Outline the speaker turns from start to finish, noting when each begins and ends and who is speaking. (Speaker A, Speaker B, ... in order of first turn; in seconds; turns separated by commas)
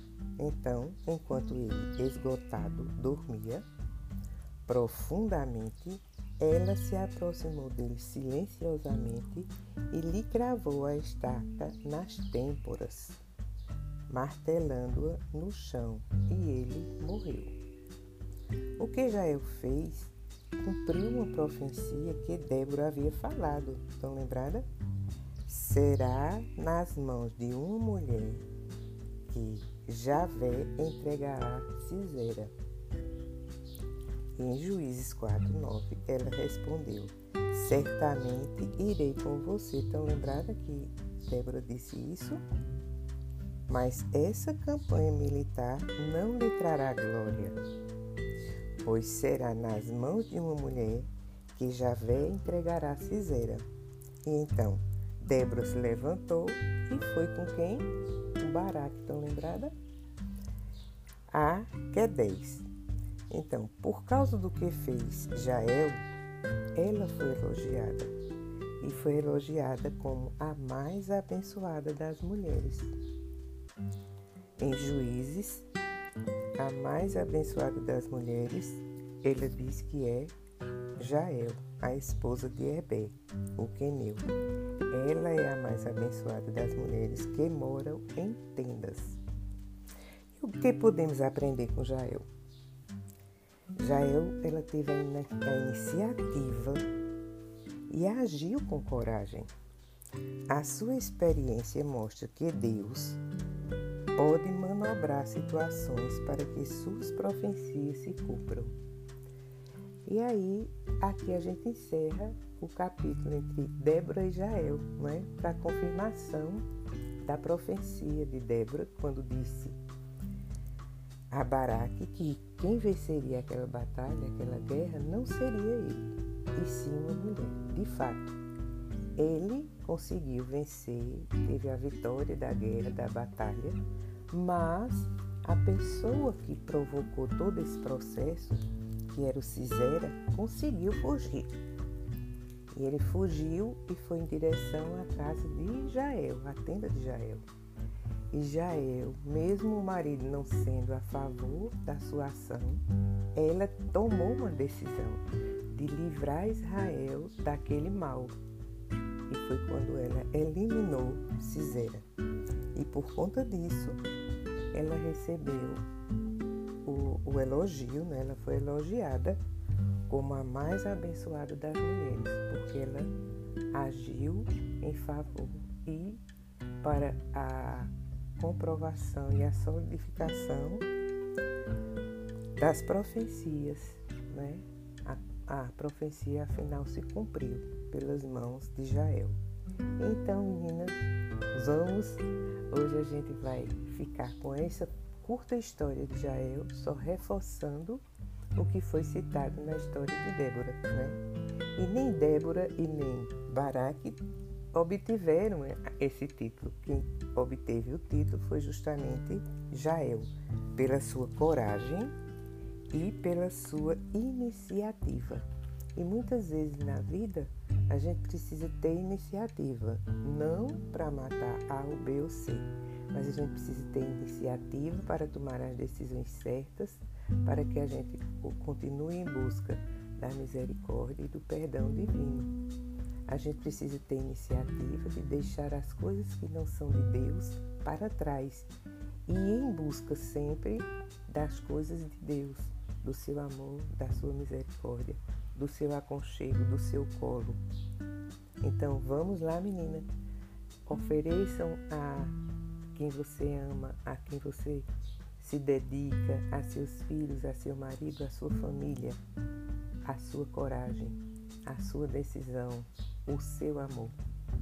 Speaker A: 0.4-3.6, Speaker A: 4.7-13.2, Speaker A: 14.1-17.5, Speaker A: 18.8-24.6, Speaker A: 25.4-28.4, Speaker A: 29.3-32.5, Speaker A: 34.4-42.4, Speaker A: 43.7-47.6, Speaker A: 48.8-53.6, Speaker A: 54.2-59.7, Speaker A: 61.3-62.7, Speaker A: 63.3-66.0, Speaker A: 66.7-68.1, Speaker A: 68.8-73.0, Speaker A: 74.6-75.7, Speaker A: 76.6-80.3, Speaker A: 81.0-84.3, Speaker A: 84.9-89.2, Speaker A: 90.3-92.2, Speaker A: 93.8-96.8, Speaker A: 97.9-99.5, Speaker A: 100.5-103.2, Speaker A: 104.2-108.8, Speaker A: 110.0-116.7, Speaker A: 117.2-119.8, Speaker A: 121.3-128.4, Speaker A: 129.2-141.5, Speaker A: 142.7-147.4, Speaker A: 148.3-152.8, Speaker A: 153.3-158.3, Speaker A: 159.3-162.0, Speaker A: 162.7-164.0, Speaker A: 164.7-165.8, Speaker A: 166.8-169.4, Speaker A: 170.1-173.1, Speaker A: 173.7-176.2, Speaker A: 176.8-180.8, Speaker A: 182.6-189.4, Speaker A: 190.0-198.0, Speaker A: 198.6-201.2, Speaker A: 201.8-212.1, Speaker A: 212.9-232.5, Speaker A: 233.3-238.7, Speaker A: 239.3-247.6, Speaker A: 248.6-250.1, Speaker A: 250.9-252.3, Speaker A: 252.9-259.2, Speaker A: 260.0-264.2